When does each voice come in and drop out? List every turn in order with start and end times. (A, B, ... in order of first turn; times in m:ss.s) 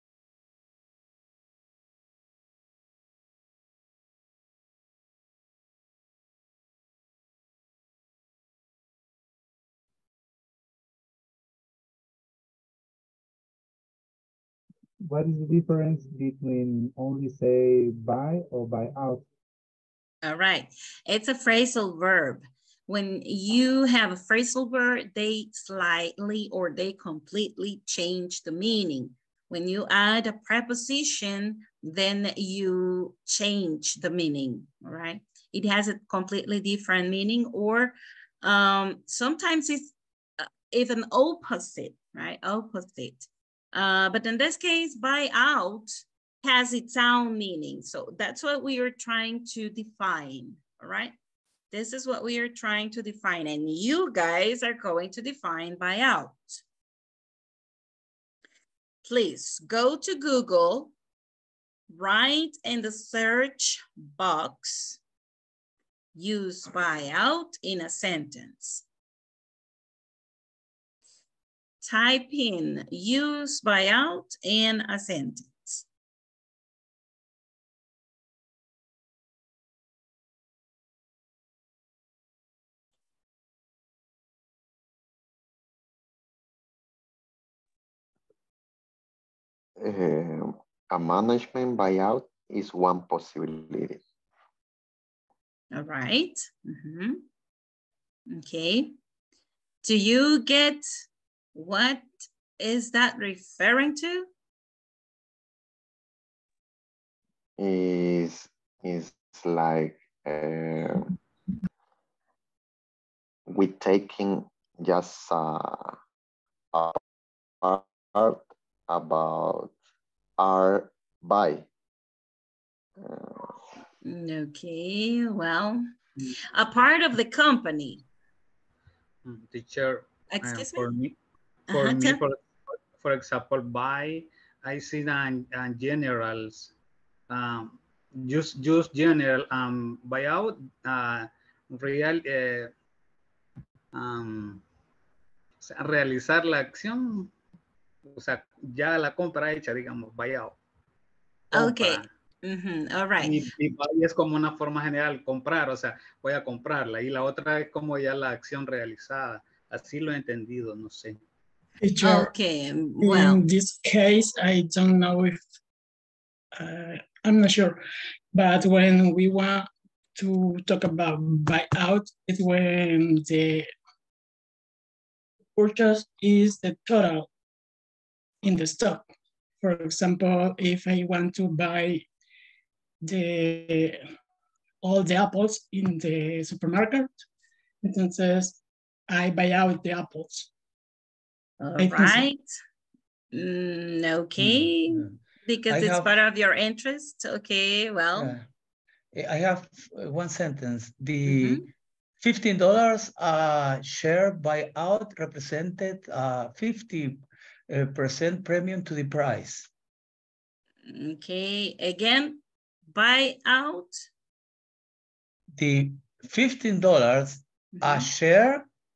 0:15.0-0:19.3 A
0:20.2-0:51.1 B
0:51.7-0:56.6 B
0:59.0-1:00.9 B
1:01.9-1:05.0 B
1:06.2-1:08.8 B
1:11.8-1:15.8 B
1:29.8-1:34.0 C
1:35.7-1:37.2 B
1:38.3-1:38.9 B
1:39.8-1:40.9 B
1:41.6-1:44.3 B
1:47.6-1:51.1 C
1:53.5-1:56.0 C
1:56.7-1:57.0 C
1:57.6-1:59.7 C
2:00.4-2:01.7 C
2:03.0-2:03.6 C
2:04.0-2:05.8 B
2:06.5-2:08.0 B
2:09.2-2:11.2 D
2:10.3-2:10.9 B
2:11.7-2:12.2 B
2:11.7-2:16.7 D
2:17.3-2:22.7 D
2:23.9-2:24.6 D
2:25.6-2:27.3 D
2:28.1-2:30.6 D
2:31.5-2:33.4 B
2:31.5-2:32.1 D
2:33.2-2:41.2 D
2:41.8-2:42.3 E
2:42.0-2:43.4 B
2:43.0-2:45.4 E
2:46.6-2:47.8 E
2:48.3-2:53.7 E
2:55.6-2:57.3 E
2:58.4-2:59.1 E
2:59.6-3:02.0 E
3:03.0-3:04.0 E
3:04.8-3:07.1 E
3:07.8-3:08.6 E
3:09.1-3:10.5 E
3:11.6-3:12.5 B
3:11.8-3:12.3 E
3:13.3-3:18.3 B
3:14.4-3:15.2 F
3:15.7-3:16.1 F
3:18.2-3:18.5 F
3:19.1-3:21.6 F
3:21.3-3:21.7 B
3:22.2-3:29.7 F
3:30.9-3:34.0 B
3:35.6-3:38.7 F
3:37.8-3:38.1 B